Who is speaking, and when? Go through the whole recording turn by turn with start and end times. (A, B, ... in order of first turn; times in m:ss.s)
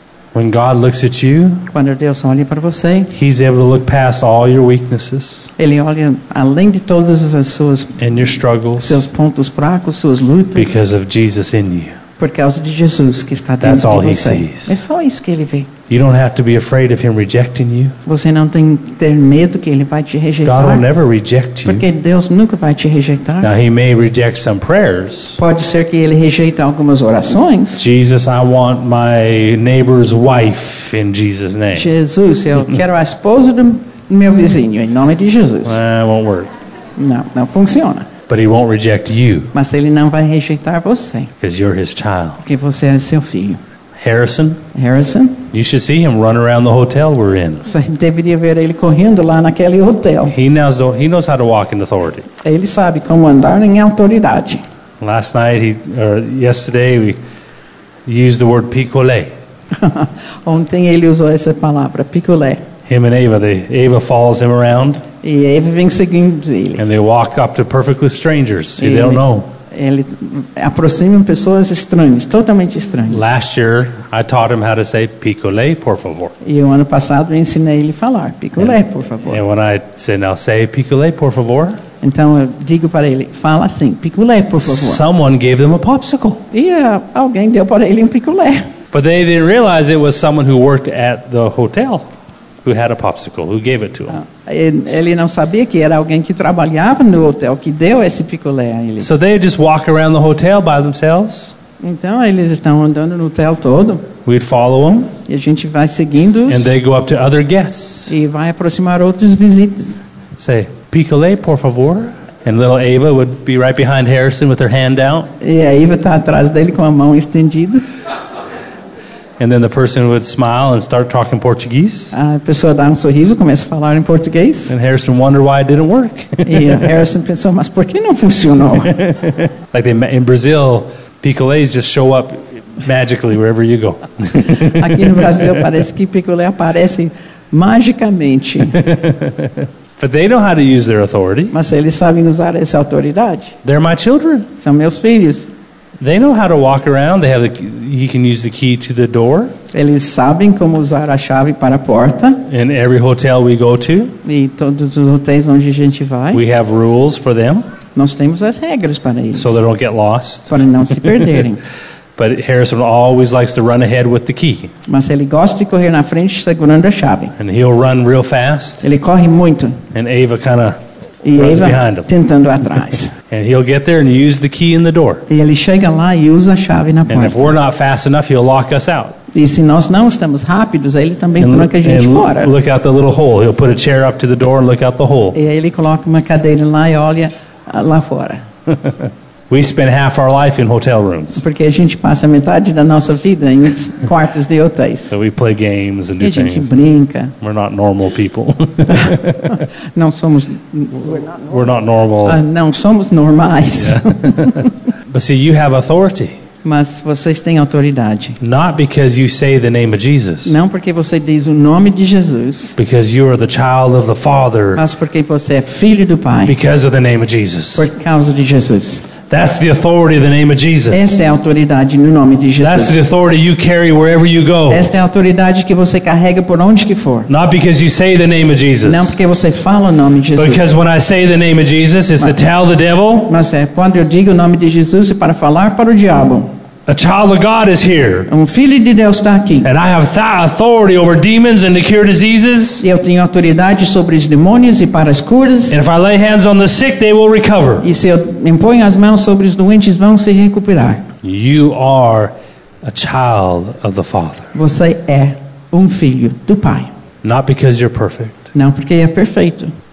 0:00.3-0:01.7 A
0:01.7-0:03.1 B
0:03.1-0:05.5 A
0:05.6-0:08.0 B
0:08.0-0:09.0 A
0:08.8-0:10.8 B
0:10.5-0:12.0 A
0:12.2-0:15.7 B
0:13.6-0:14.8 A
0:15.9-0:18.0 A
0:18.0-0:20.8 B
0:20.4-0:21.8 A
0:21.6-0:23.5 B
0:23.4-0:25.4 A
0:25.4-0:27.8 B
0:27.8-0:31.9 A
0:31.7-0:35.8 B
0:35.6-0:36.5 A
0:37.0-0:38.1 B
0:38.3-0:39.5 A
0:39.5-0:41.3 B
0:41.4-0:42.4 A
0:42.4-0:43.6 B
0:44.0-0:44.6 A
0:44.7-0:45.5 B
0:45.5-0:47.7 A
0:47.6-0:50.3 B
0:50.3-0:52.3 A
0:52.4-0:54.6 B
0:55.0-0:57.2 A
0:58.0-0:59.3 A
0:59.7-1:02.6 B
1:02.9-1:05.0 A
1:05.2-1:06.8 B
1:06.8-1:09.5 A
1:08.8-1:13.3 B
1:13.1-1:16.3 A
1:16.4-1:19.4 B
1:18.6-1:21.8 A
1:22.0-1:25.0 B
1:24.6-1:26.4 A
1:26.5-1:28.7 B
1:28.9-1:32.1 A
1:32.6-1:34.2 A
1:34.1-1:39.1 B
1:39.0-1:41.6 A
1:41.8-1:44.1 B
1:44.2-1:45.1 A
1:45.2-1:46.7 B
1:46.5-1:48.1 A
1:48.1-1:50.0 B
1:50.4-1:55.3 A
1:55.4-1:57.8 B
1:59.4-2:02.1 A
2:02.1-2:04.7 B
2:04.7-2:06.8 A
2:06.4-2:09.0 B
2:09.0-2:15.4 A
2:14.4-2:18.8 B
2:18.7-2:21.5 A
2:21.5-2:23.6 B
2:23.6-2:24.5 A
2:24.6-2:25.5 B
2:26.0-2:29.5 A
2:29.7-2:32.4 B
2:32.5-2:34.2 A
2:34.2-2:36.4 B
2:36.3-2:37.6 A
2:37.9-2:39.6 B
2:39.3-2:41.4 A
2:40.5-2:41.6 B
2:42.2-2:44.7 A
2:44.9-2:47.4 B
2:47.4-2:48.8 A
2:48.8-2:49.8 B
2:49.9-2:50.8 A
2:51.2-2:53.1 B
2:51.3-2:52.1 A
2:53.3-2:55.3 A
2:55.3-2:57.5 B
2:57.1-2:59.2 A
2:59.3-3:02.5 B
3:01.4-3:05.4 A
3:05.3-3:08.4 B
3:09.5-3:11.4 A
3:11.4-3:15.2 B
3:15.1-3:16.7 A
3:16.2-3:17.3 B
3:17.4-3:19.6 A
3:18.9-3:21.7 B
3:21.5-3:22.4 A
3:22.2-3:24.7 B
3:23.8-3:26.4 A
3:26.6-3:28.4 B
3:28.4-3:30.6 A
3:30.4-3:32.8 B
3:32.8-3:34.8 A
3:34.8-3:36.5 B
3:36.4-3:37.9 A
3:37.7-3:39.1 B
3:39.3-3:41.1 A
3:40.9-3:43.0 B
3:42.6-3:44.9 A
3:44.7-3:47.3 B
3:47.3-3:49.1 A
3:48.8-3:50.7 B
3:50.4-3:53.3 A
3:53.3-3:56.5 B
3:56.9-3:58.3 A
3:58.3-3:59.7 B
3:59.6-4:02.8 A
4:02.8-4:05.8 B
4:05.7-4:07.9 A
4:07.8-4:11.1 B
4:11.2-4:14.5 A
4:14.5-4:16.9 B
4:17.2-4:18.4 A
4:18.5-4:19.7 B